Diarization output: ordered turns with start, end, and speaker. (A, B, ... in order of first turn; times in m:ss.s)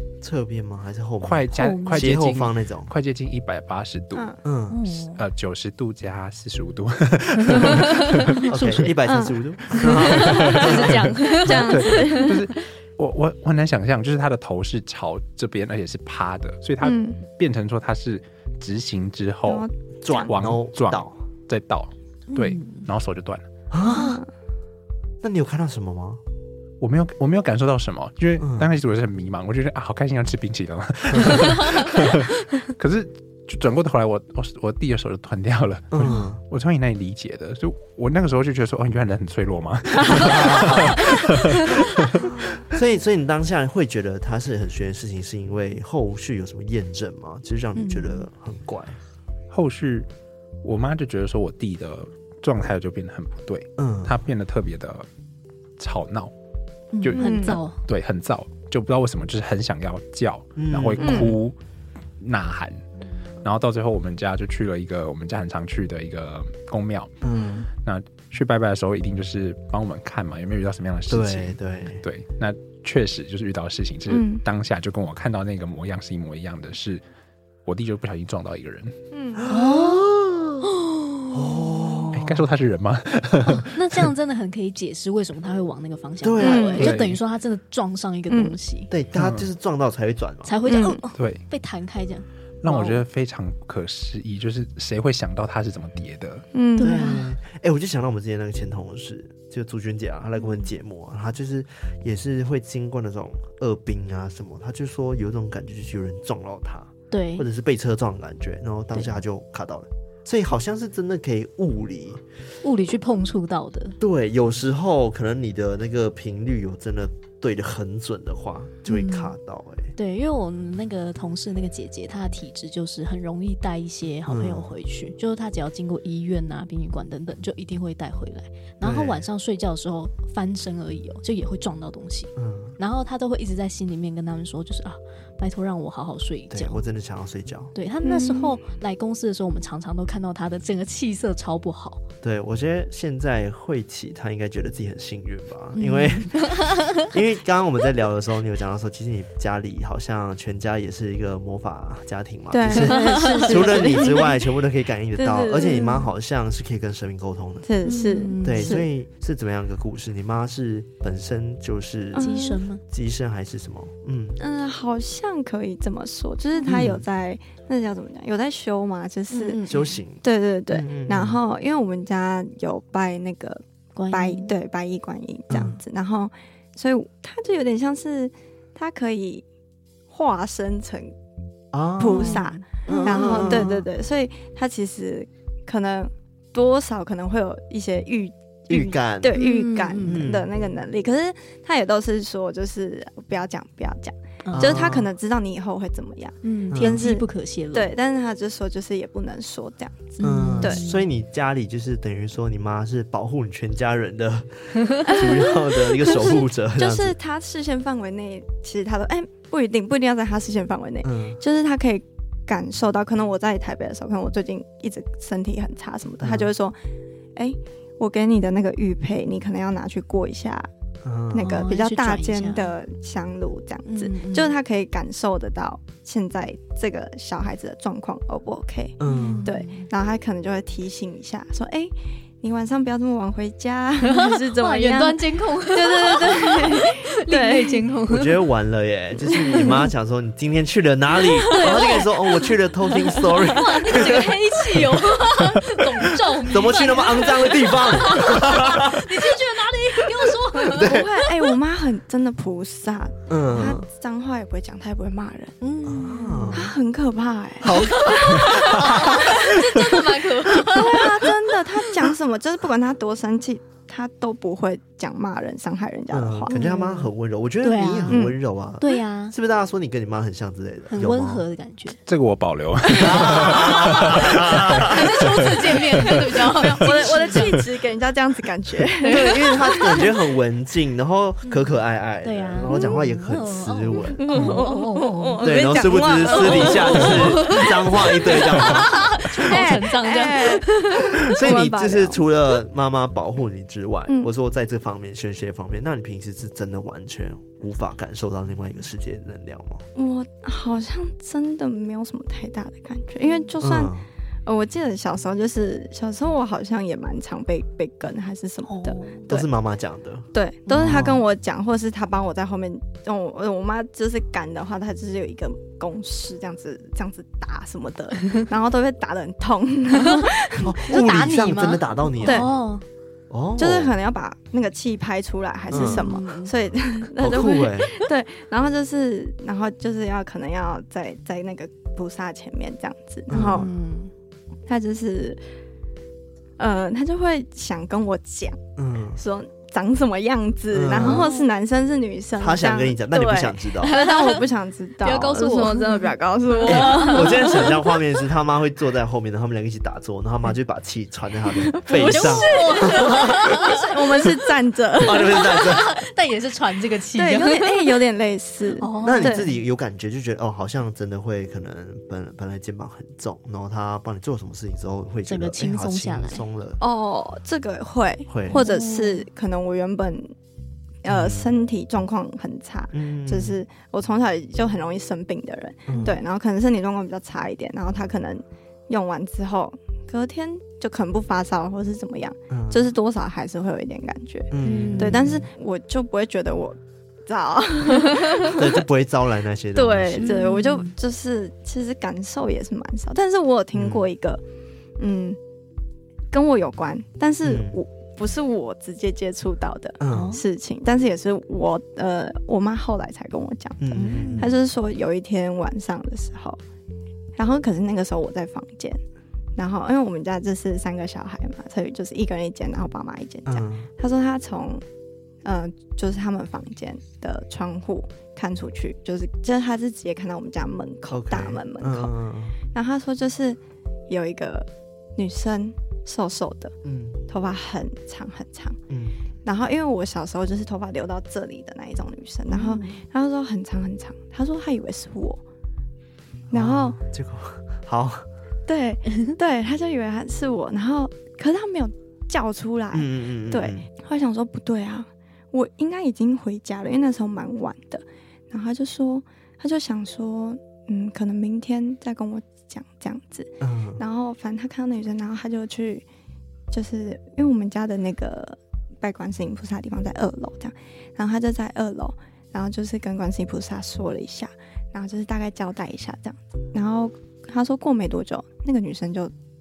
0:00.2-0:02.9 A
0:01.2-0:04.3 B
0:01.5-0:02.2 C
0:04.4-0:04.8 A
0:04.7-0:05.2 C
0:05.1-0:08.5 B
0:07.4-0:08.9 C
0:08.5-0:11.1 A
0:09.0-0:12.5 D
0:09.8-0:12.4 C
0:11.4-0:19.7 B
0:16.8-0:17.2 D
0:19.4-0:20.3 D
0:20.0-0:21.1 A
0:20.2-0:23.4 B
0:22.3-0:22.8 C
0:23.7-0:24.2 A
0:23.9-0:24.2 C
0:23.9-0:24.2 D
0:25.2-0:26.2 A
0:26.8-0:42.4 B
0:28.4-0:28.7 A
0:35.9-0:36.4 A
0:36.0-0:36.3 C
0:40.1-0:41.0 A
0:40.2-0:40.8 C
0:42.7-0:49.0 A
0:47.7-0:48.3 C
0:49.5-0:50.1 B
0:50.6-0:55.1 B
0:53.8-0:54.1 A
0:55.8-0:56.3 B
0:56.9-0:57.8 C
0:57.0-1:01.6 B
0:57.2-0:57.6 D
1:00.6-1:01.4 A
1:01.0-1:01.4 D
1:02.2-1:02.8 B
1:03.4-1:07.1 B
1:07.2-1:07.6 A
1:07.3-1:07.6 D
1:07.8-1:17.0 B
1:11.1-1:12.0 A
1:14.1-1:14.4 D
1:17.6-1:18.9 B
1:19.1-1:19.4 D
1:19.3-1:20.7 A
1:19.5-1:20.1 C
1:20.6-1:22.1 C
1:21.3-1:22.4 A
1:22.1-1:24.0 B
1:23.5-1:28.9 C
1:26.2-1:27.1 A
1:26.4-1:26.9 D
1:26.8-1:27.2 B
1:28.3-1:28.6 D
1:28.9-1:30.6 A
1:29.1-1:29.5 B
1:30.4-1:33.0 C
1:30.6-1:31.0 D
1:31.1-1:31.4 B
1:32.6-1:36.4 B
1:36.5-1:37.1 D
1:36.8-1:37.3 C
1:36.8-1:52.2 A
1:47.1-1:47.5 C
1:48.9-1:49.2 C
1:52.6-1:54.0 C
1:54.0-1:59.9 A
1:58.9-1:59.3 C
2:00.0-2:16.8 C
2:04.3-2:04.7 A
2:08.8-2:09.2 A
2:12.4-2:12.8 A
2:16.5-2:17.7 A
2:17.7-2:22.0 C
2:18.0-2:18.6 D
2:22.2-2:37.7 A
2:25.7-2:27.1 C
2:32.5-2:34.4 D
2:32.7-2:34.1 C
2:35.2-2:36.1 D
2:37.6-2:38.9 D
2:37.8-2:38.8 C
2:38.4-2:42.4 A
2:42.1-2:42.6 D
2:42.2-2:42.8 C
2:42.9-2:44.4 A
2:44.4-2:49.6 D
2:46.6-2:47.0 A
2:49.3-2:50.0 C
2:49.7-2:51.4 A
2:50.2-2:59.4 D
2:54.0-2:54.5 C
2:55.5-2:55.8 A
3:00.1-3:01.1 D
3:01.7-3:03.8 A
3:02.0-3:20.8 D
3:02.1-3:03.8 C
3:08.7-3:09.4 A
3:09.3-3:10.3 C
3:10.0-3:10.5 A
3:14.4-3:14.9 C
3:14.5-3:15.1 A
3:16.4-3:17.9 C
3:16.7-3:17.0 A
3:20.2-3:21.1 C
3:20.2-3:27.2 A
3:25.0-3:36.8 D
3:31.0-3:31.4 A
3:36.2-3:36.5 A
3:37.4-3:40.7 D
3:41.0-3:41.6 A
3:41.3-3:57.8 D
3:41.4-3:42.7 C
3:43.9-3:44.5 C
3:49.0-3:49.5 A
3:49.0-3:49.8 C
3:54.0-3:58.4 C
3:58.1-4:05.0 A
3:59.3-3:59.8 D
4:01.3-4:11.3 C
4:01.5-4:02.4 D
4:03.1-4:04.2 D
4:06.0-4:09.4 A
4:10.1-4:11.2 A
4:10.7-4:15.6 D
4:13.3-4:13.9 A
4:15.6-4:16.7 C
4:15.9-4:16.7 A
4:16.5-4:19.5 D
4:17.6-4:19.6 A
4:17.7-4:21.3 C
4:20.6-4:26.6 D
4:26.1-4:31.4 A
4:26.5-4:27.1 C
4:27.6-4:29.3 C
4:28.1-4:28.4 D
4:30.9-4:32.0 C
4:32.0-4:35.5 B
4:32.9-4:35.0 A
4:33.2-4:33.5 D
4:33.2-4:34.1 C
4:34.7-4:37.6 C
4:36.0-4:40.2 D
4:39.0-4:40.1 C
4:39.0-4:44.6 A
4:42.2-4:51.2 C
4:42.7-4:43.0 D
4:44.1-4:52.2 D
4:45.4-4:49.6 A
4:51.2-4:59.8 A
4:59.9-5:03.9 D
5:03.6-5:04.1 A
5:04.4-5:09.4 D
5:08.7-5:09.3 C
5:09.3-5:11.2 A
5:10.3-5:21.1 D
5:10.7-5:11.0 C
5:20.0-5:20.3 C
5:20.6-5:22.5 A
5:20.8-5:22.8 C
5:22.2-5:22.5 D
5:23.3-5:23.9 A
5:23.6-5:33.7 D
5:25.7-5:26.5 C
5:25.7-5:26.1 A
5:27.2-5:28.0 A
5:33.3-5:33.7 A
5:33.3-5:34.1 C
5:34.7-5:35.4 D
5:36.6-5:38.6 D
5:38.8-5:39.2 A
5:39.2-5:47.9 D
5:40.7-5:41.3 A
5:41.0-5:41.5 C
5:42.4-5:44.0 A
5:43.8-5:44.5 C
5:45.0-5:47.8 C
5:46.6-5:53.6 A
5:51.5-5:55.6 D
5:51.9-5:54.3 C
5:55.0-5:55.9 A
5:55.1-5:58.0 C
5:57.1-5:59.5 D
5:58.8-5:59.5 C
5:59.0-6:06.8 A
6:05.3-6:06.4 C
6:06.8-6:10.3 D
6:08.3-6:08.6 A
6:08.5-6:09.3 C
6:11.0-6:28.8 D
6:11.0-6:11.5 A
6:12.9-6:13.6 A
6:15.9-6:16.2 A
6:22.5-6:22.9 A
6:24.5-6:25.4 A
6:24.6-6:25.4 C
6:28.4-6:30.4 A
6:29.7-6:34.4 D
6:30.2-6:30.9 C
6:33.7-6:34.1 A
6:35.0-6:35.4 D
6:36.3-6:46.6 D
6:37.4-6:37.8 A
6:40.0-6:40.4 A
6:40.1-6:40.4 C
6:43.8-6:44.6 A
6:43.9-6:44.5 C
6:47.4-6:49.0 D
6:49.6-6:54.8 D
6:53.5-6:53.9 A
6:55.4-7:02.1 D
7:01.1-7:02.6 A
7:02.7-7:06.7 D
7:06.8-7:07.2 A
7:07.3-7:08.8 D
7:08.9-7:09.2 A
7:09.4-7:15.4 D
7:12.5-7:13.0 C
7:16.5-7:18.2 A
7:16.5-7:17.0 D
7:18.7-7:36.0 D
7:22.9-7:23.9 A
7:33.6-7:34.0 A
7:36.7-7:49.3 D